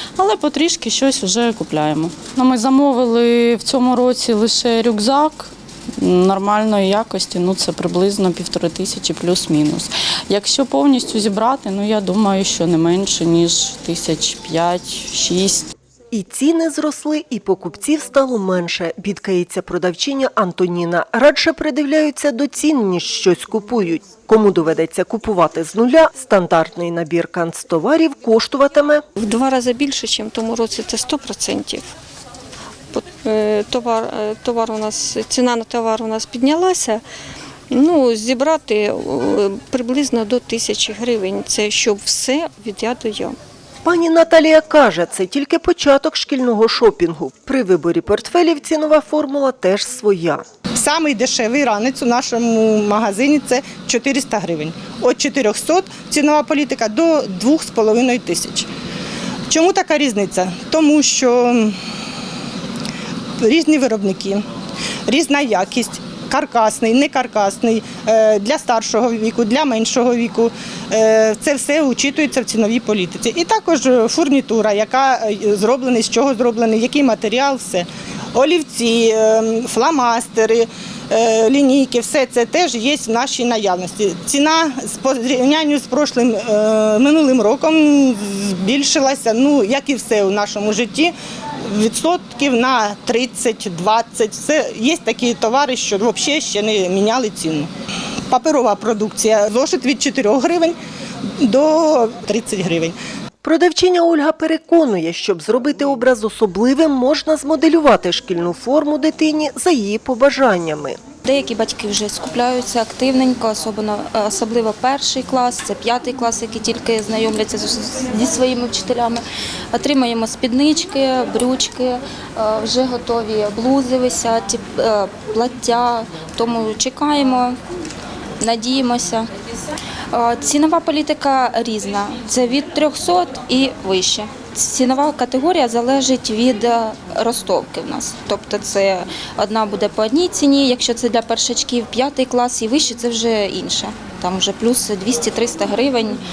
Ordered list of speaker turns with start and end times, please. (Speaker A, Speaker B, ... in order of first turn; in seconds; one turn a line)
Speaker A: 0.2-15.7
Speaker B: 16.1-29.0
Speaker C: 29.2-31.9
Speaker C: 32.9-37.0
Speaker C: 37.7-43.4
Speaker B: 43.8-50.4
Speaker D: 50.8-58.7
Speaker D: 59.5-61.8
Speaker D: 63.4-64.5
Speaker D: 65.1-97.7
Speaker D: 98.3-100.8
Speaker D: 101.4-103.0
Speaker B: 103.4-111.0
Speaker E: 111.2-127.6
Speaker E: 128.4-129.3
Speaker E: 130.1-146.2